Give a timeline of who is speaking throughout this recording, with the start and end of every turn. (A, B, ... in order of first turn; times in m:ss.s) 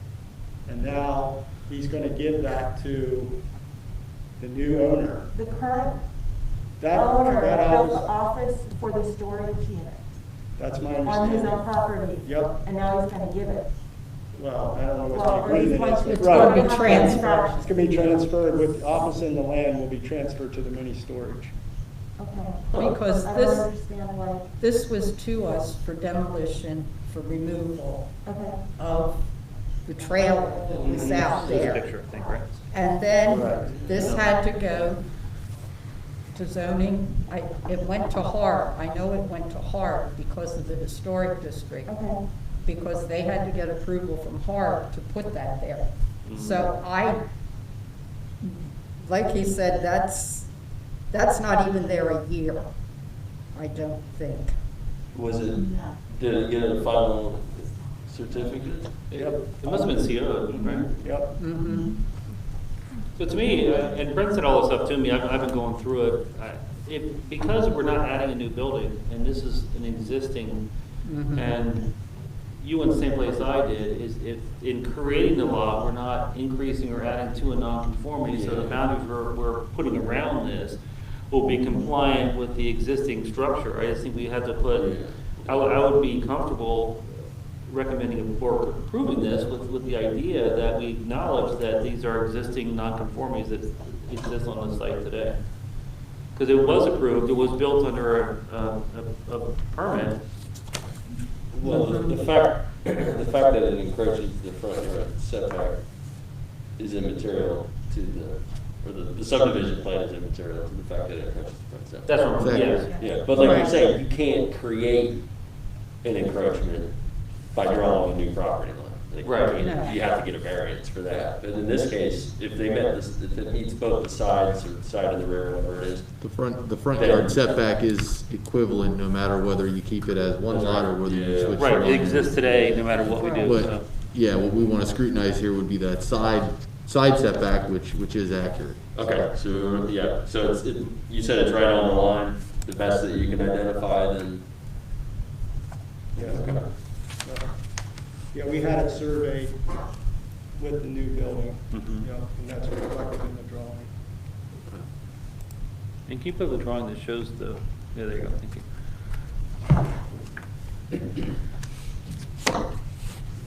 0:00.6-0:03.4 A
0:04.4-0:05.3 A
0:05.3-0:06.0 B
0:06.8-0:08.1 A
0:06.9-0:10.0 B
0:10.6-0:11.6 A
0:11.0-0:13.7 B
0:12.2-0:12.6 A
0:14.3-0:21.5 A
0:15.1-0:17.7 B
0:15.7-0:17.6 C
0:22.2-0:24.5 B
0:22.8-0:23.7 C
0:24.6-0:28.1 C
0:28.2-0:28.7 B
0:28.8-0:29.3 C
0:29.8-0:31.8 C
0:30.9-0:32.6 D
0:32.7-0:35.0 C
0:33.3-0:34.0 A
0:34.0-0:34.3 D
0:36.3-0:42.0 C
0:41.8-0:42.2 B
0:42.6-0:47.2 C
0:46.2-0:46.7 D
0:48.4-0:50.5 C
0:51.1-0:52.7 C
0:53.5-0:54.6 C
0:55.1-0:58.9 E
0:59.1-1:00.9 D
0:59.1-1:00.1 A
1:00.8-1:01.4 A
1:01.4-1:02.0 C
1:03.2-1:10.7 D
1:11.0-1:11.5 C
1:11.3-1:11.9 D
1:12.6-1:35.4 D
1:18.2-1:18.8 E
1:24.7-1:25.7 E
1:36.3-1:40.2 D
1:41.5-1:52.4 E
1:41.6-1:42.1 C
1:52.0-1:53.5 D
1:52.4-1:52.9 F
1:52.9-1:55.3 E
1:53.3-1:53.7 C
1:56.0-2:06.2 E
1:59.2-1:59.6 D
1:59.6-1:59.9 C
2:06.2-2:19.3 F
2:07.0-2:07.4 E
2:10.5-2:12.1 E
2:11.6-2:13.9 D
2:13.1-2:13.5 C
2:18.9-2:24.4 E
2:26.1-2:26.6 A
2:26.2-2:26.6 E
2:27.2-2:27.5 A
2:28.3-2:29.8 A
2:30.5-2:33.9 A
2:31.7-2:32.0 D
2:36.1-2:38.6 D